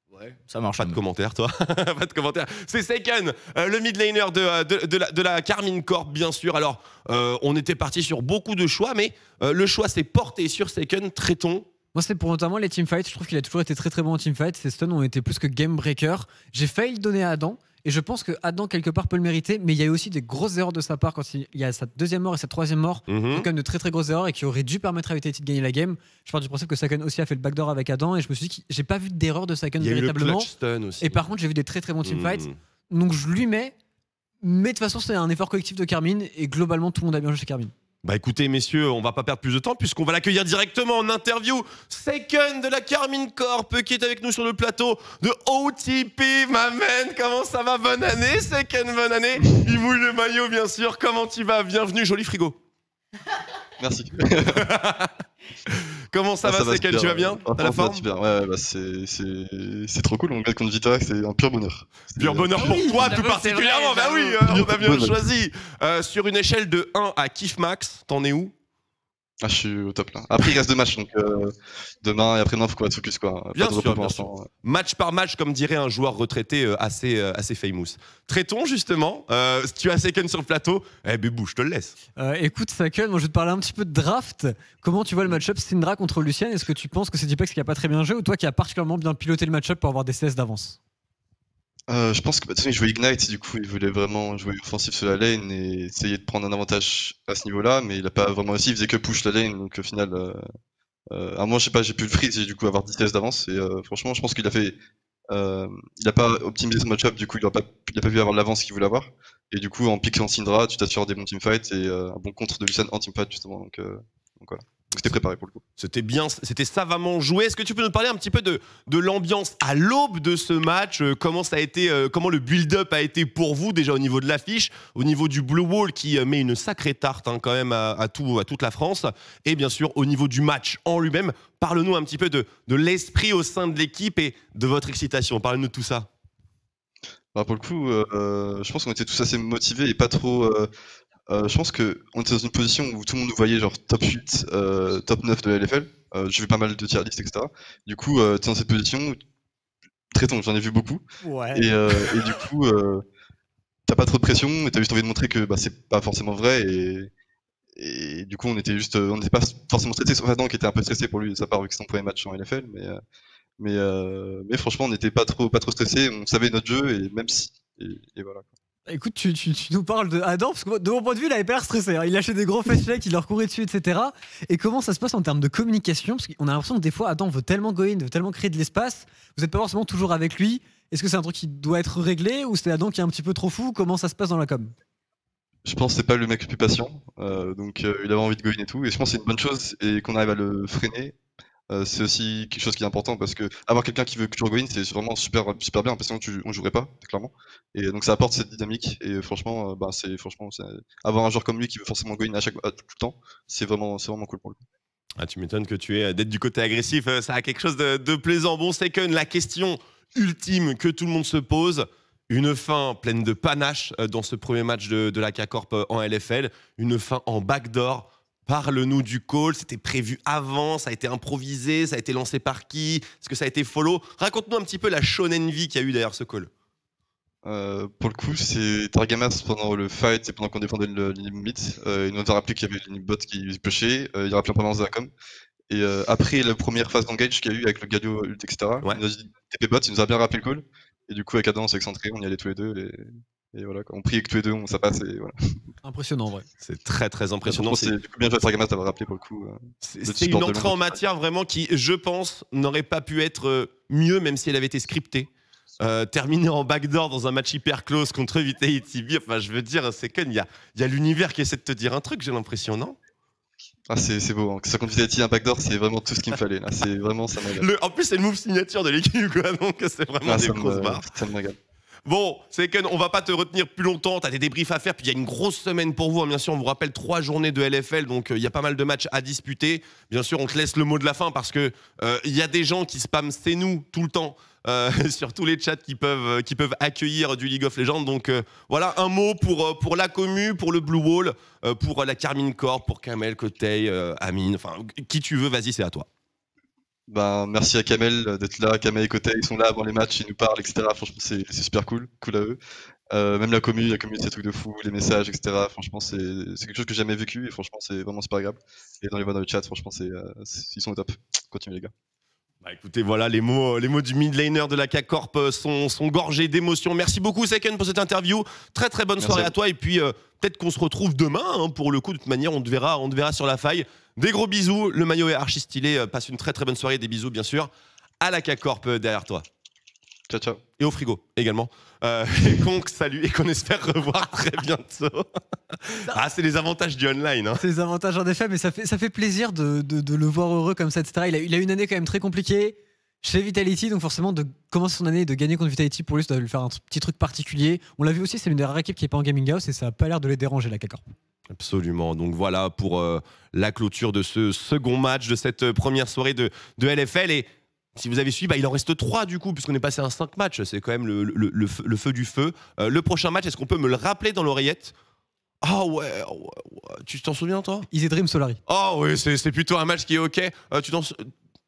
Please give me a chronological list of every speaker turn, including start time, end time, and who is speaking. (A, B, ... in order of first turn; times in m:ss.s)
0:00.2-0:01.0 A
0:00.8-0:11.7 B
0:11.9-0:30.5 C
0:23.1-0:23.5 B
0:29.8-0:31.2 B
0:31.0-0:33.7 C
0:32.0-0:32.5 B
0:34.4-0:37.7 C
0:38.0-0:52.6 B
0:53.8-0:54.7 D
0:54.5-0:55.1 B
0:56.1-0:58.0 B
0:56.4-1:03.1 D
1:02.2-1:08.5 B
1:02.6-1:04.4 A
1:04.4-1:05.2 D
1:09.4-1:14.5 D
1:13.6-1:21.9 B
1:22.2-1:30.8 C
1:31.9-1:40.4 D
1:41.1-1:44.7 D
1:45.3-1:55.6 D
1:55.8-2:16.1 B
2:17.3-2:20.7 D
2:21.3-2:29.2 D
2:30.1-2:31.0 D
2:31.2-2:32.2 C
2:31.5-2:33.0 D
2:33.9-2:37.1 D
2:37.8-2:43.0 D
2:43.6-2:48.5 D
2:48.9-3:04.7 C
3:05.6-3:11.1 D
3:11.7-3:24.6 D
3:25.2-3:46.5 B
3:47.4-3:55.1 D
3:55.7-4:05.4 D
4:05.8-4:06.4 C
4:06.6-4:07.9 B
4:07.4-4:11.0 D
4:09.8-4:23.0 B
4:23.9-4:27.6 D
4:27.5-4:31.0 B
4:30.2-4:31.6 D
4:32.0-4:56.1 B
4:57.1-5:02.6 D
5:03.1-5:11.9 D
5:12.6-5:27.7 B
5:19.2-5:19.5 D
5:28.2-5:29.4 B
5:30.3-5:30.6 D
5:30.8-5:37.6 B
5:37.6-5:51.1 C
5:51.5-6:04.9 B
6:05.6-6:07.9 B
6:07.9-6:08.6 C
6:08.7-6:11.3 B